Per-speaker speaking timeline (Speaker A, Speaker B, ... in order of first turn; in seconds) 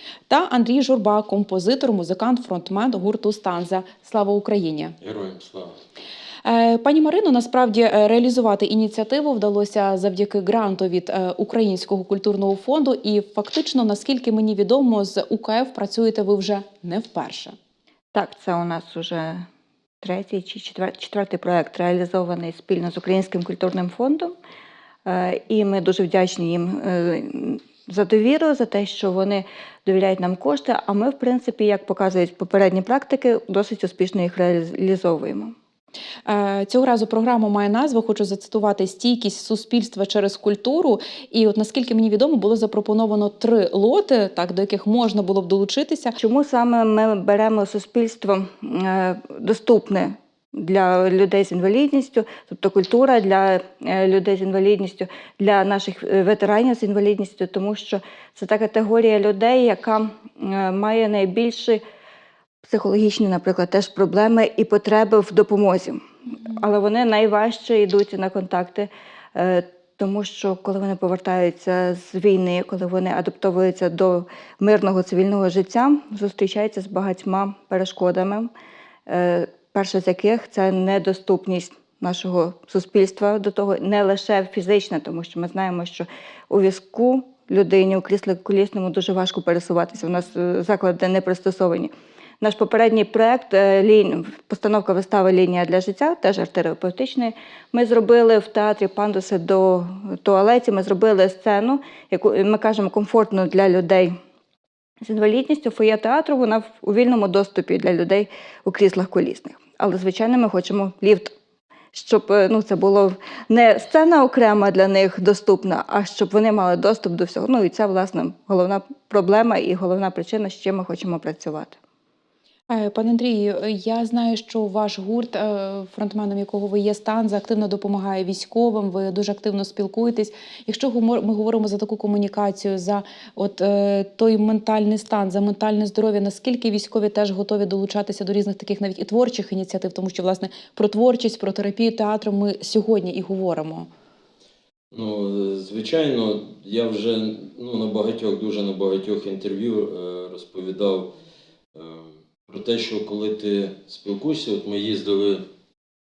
Speaker A: 0.3-5.0, 6.4-17.5, 36.2-46.1, 122.7-143.9
Speaker B: 5.0-5.7, 144.9-151.1, 151.7-155.4
Speaker C: 18.1-19.5, 20.0-24.3, 25.0-35.5, 46.2-61.8, 62.6-78.5, 79.1-104.2, 105.0-111.3, 111.9-121.8